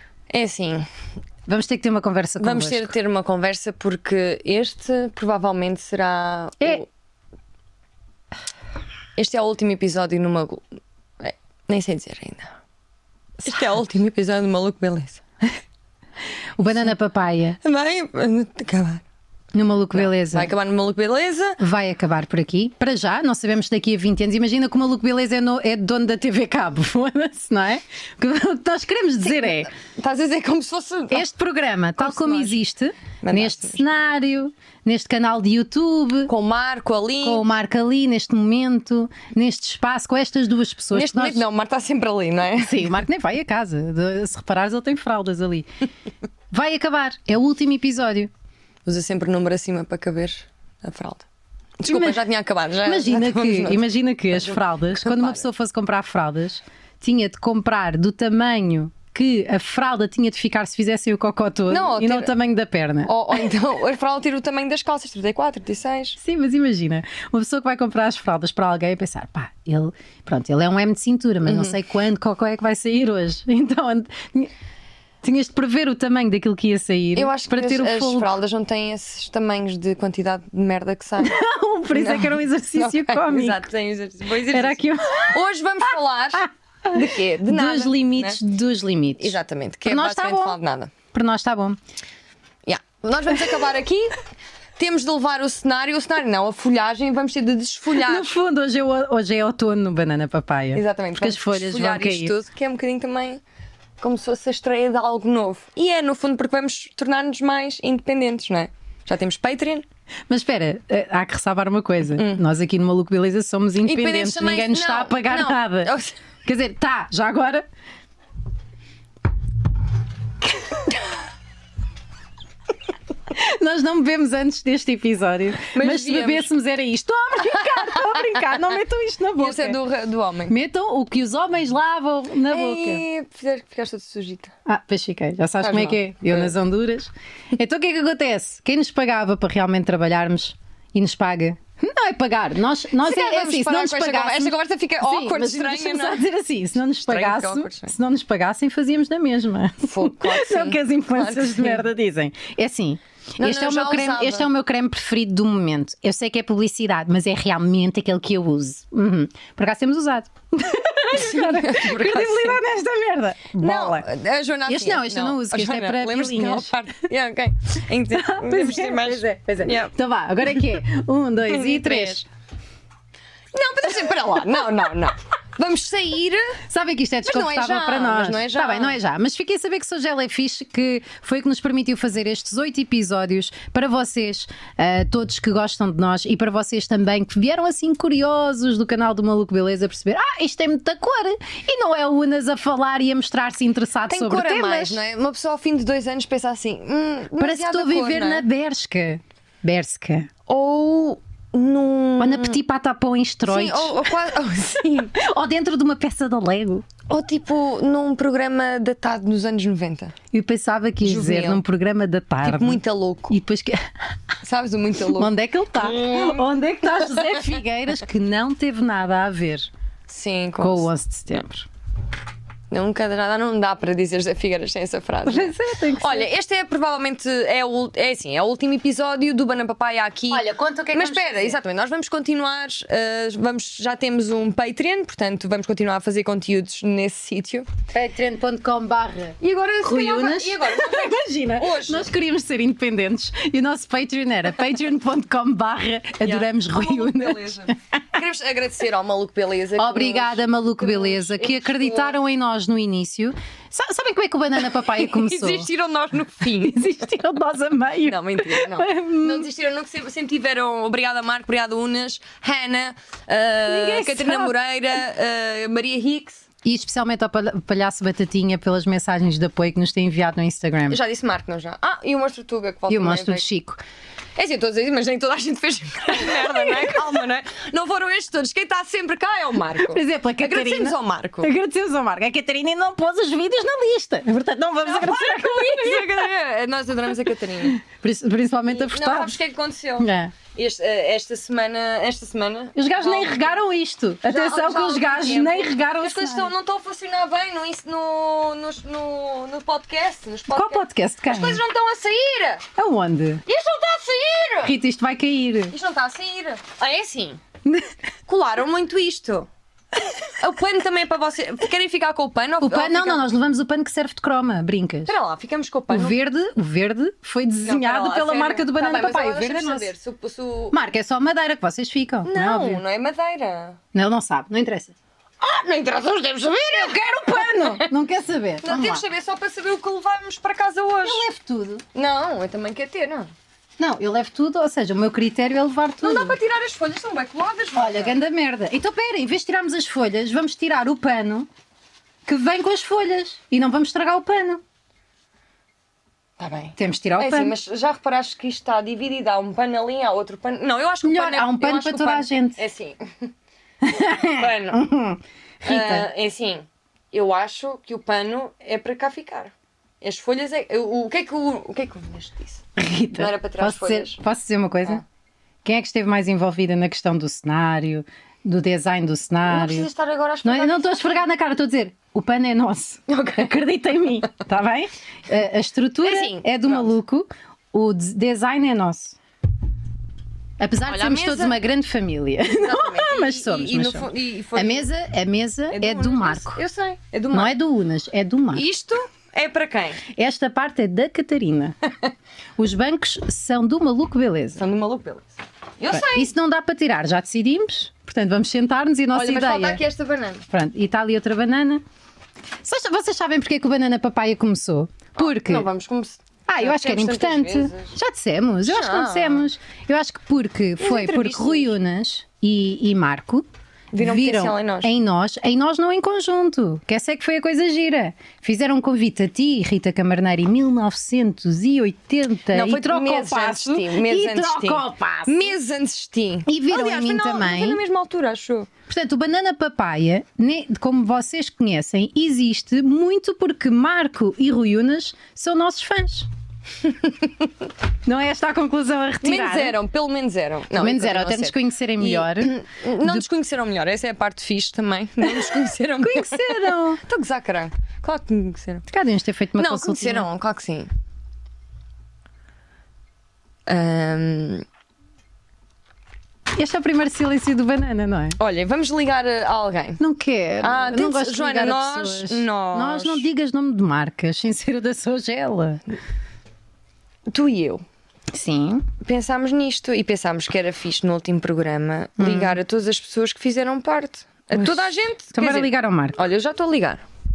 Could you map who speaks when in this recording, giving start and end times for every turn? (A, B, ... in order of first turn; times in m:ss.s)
0:00.3-0:00.9 A
0:01.5-0:02.9 B
0:02.4-0:06.9 A
0:09.2-0:10.7 A
0:11.2-0:12.5 A
0:13.4-0:15.2 A
0:16.6-0:17.6 B
0:17.6-0:19.0 A
0:19.5-0:20.5 B
0:19.9-0:21.6 A
0:21.6-0:29.7 B
0:29.2-0:31.3 A
0:31.1-0:36.3 B
0:32.0-0:32.6 A
0:33.2-0:33.8 A
0:36.3-0:37.5 A
0:37.2-0:41.4 B
0:40.9-0:42.9 A
0:42.6-0:45.7 B
0:46.5-0:48.3 B
0:48.8-0:51.2 A
0:51.8-0:55.4 A
0:51.9-0:52.2 B
0:52.8-1:03.1 B
1:01.7-1:02.4 A
1:03.1-1:06.2 A
1:06.2-1:14.5 B
1:11.4-1:11.8 A
1:15.2-1:18.3 B
1:17.2-1:21.4 A
1:21.2-1:23.7 B
1:21.9-1:28.4 A
1:24.5-1:25.4 B
1:26.4-1:30.6 B
1:29.2-1:30.9 A
1:31.1-1:31.8 B
1:32.7-1:34.1 A
1:34.8-1:38.3 A
1:38.0-1:42.3 B
1:40.7-1:43.4 A
1:44.0-1:49.9 A
1:50.3-1:55.9 B
1:52.2-1:52.4 A
1:53.8-1:56.2 A
1:56.4-1:57.7 B
2:03.3-2:09.8 B
2:05.7-2:06.5 A
2:07.4-2:08.5 A
2:09.4-2:10.6 A
2:10.5-2:13.0 B
2:12.5-2:14.5 A
2:14.7-2:44.1 B
2:15.6-2:16.5 A
2:23.0-2:26.2 A
2:27.1-2:27.9 A
2:29.8-2:31.9 A
2:33.4-2:34.5 A
2:41.1-2:42.6 A
2:43.6-2:49.9 A
2:44.7-2:46.8 B
2:48.1-2:52.2 B
2:51.5-2:52.2 A
2:53.5-2:56.6 A
2:56.7-3:15.0 B
2:57.2-2:59.0 A
3:14.1-3:18.5 A
3:17.4-3:20.3 B
3:20.5-3:22.6 A
3:22.2-3:24.0 B
3:23.5-3:25.2 A
3:25.1-3:26.8 B
3:27.1-3:30.2 A
3:30.3-3:33.9 B
3:31.0-3:31.6 A
3:32.4-3:33.4 A
3:34.4-3:37.6 A
3:35.2-3:39.7 B
3:40.1-3:40.9 A
3:40.6-3:41.7 B
3:42.7-3:57.7 A
3:45.3-3:46.3 B
3:50.3-3:51.6 B
3:57.9-4:07.7 B
3:59.4-4:02.1 A
4:06.2-4:12.2 A
4:09.8-4:15.7 B
4:14.9-4:16.9 A
4:16.4-4:19.5 B
4:18.0-4:26.4 A
4:23.7-4:24.5 B
4:26.6-4:31.0 B
4:30.9-4:33.4 A
4:32.9-4:33.8 B
4:34.4-4:41.5 A
4:36.2-4:36.9 B
4:39.9-4:46.2 B
4:44.8-4:47.8 A
4:47.7-4:49.4 B
4:48.7-4:53.6 A
4:50.0-4:50.3 B
4:52.8-4:56.5 B
4:54.2-5:02.6 A
5:00.5-5:01.6 B
5:02.8-5:03.4 B
5:03.5-5:04.8 A
5:04.6-5:05.8 B
5:05.7-5:07.4 A
5:07.6-5:07.9 B
5:08.3-5:09.5 A
5:10.4-5:13.3 A
5:12.6-5:15.2 B
5:15.1-5:16.2 A
5:15.9-5:19.9 B
5:17.6-5:20.8 A
5:20.7-5:22.8 B
5:22.2-5:23.8 A
5:23.9-5:24.9 B
5:25.4-5:27.9 A
5:26.7-5:29.0 B
5:28.6-5:31.2 A
5:31.0-5:31.8 B
5:31.9-5:33.3 A
5:33.8-5:36.4 B
5:36.0-5:38.2 A
5:37.8-5:41.5 B
5:42.3-5:44.6 B
5:46.4-5:53.3 A
5:46.8-5:47.6 B
5:51.0-5:52.6 B
5:53.8-5:56.1 B
5:54.2-5:54.8 A
5:55.6-6:04.2 A
6:02.8-6:05.0 B
6:05.6-6:09.9 B
6:09.4-6:11.1 A
6:10.4-6:19.2 B
6:13.1-6:13.5 A
6:16.0-6:16.9 A
6:20.6-6:26.6 B
6:20.8-6:21.6 A
6:22.6-6:24.9 A
6:25.7-6:27.6 A
6:27.3-6:28.7 B
6:28.5-6:30.0 A
6:30.1-6:31.8 B
6:32.6-6:34.6 B
6:34.6-6:36.3 A
6:35.9-6:39.8 B
6:39.1-6:40.5 A
6:40.5-6:41.8 B
6:42.6-6:45.7 B
6:45.2-6:48.0 A
6:46.5-6:53.5 B
6:48.6-6:49.5 A
6:50.8-6:51.7 A
6:53.9-6:54.9 A
6:54.0-7:05.6 B
7:02.5-7:08.7 A
7:06.5-7:07.8 B
7:08.9-7:16.3 B
7:18.1-7:19.8 B
7:19.2-7:28.8 A
7:20.8-7:23.2 B
7:25.2-7:27.0 B
7:28.9-7:30.3 B
7:29.6-7:30.9 A
7:33.7-7:34.6 A
7:36.6-7:38.4 B
7:38.4-7:40.0 A
7:40.0-7:45.8 B
7:40.6-7:43.3 A
7:47.3-7:47.8 A
7:48.3-7:48.9 B
7:49.0-7:57.0 A
7:52.2-7:52.6 B
7:54.6-7:56.2 B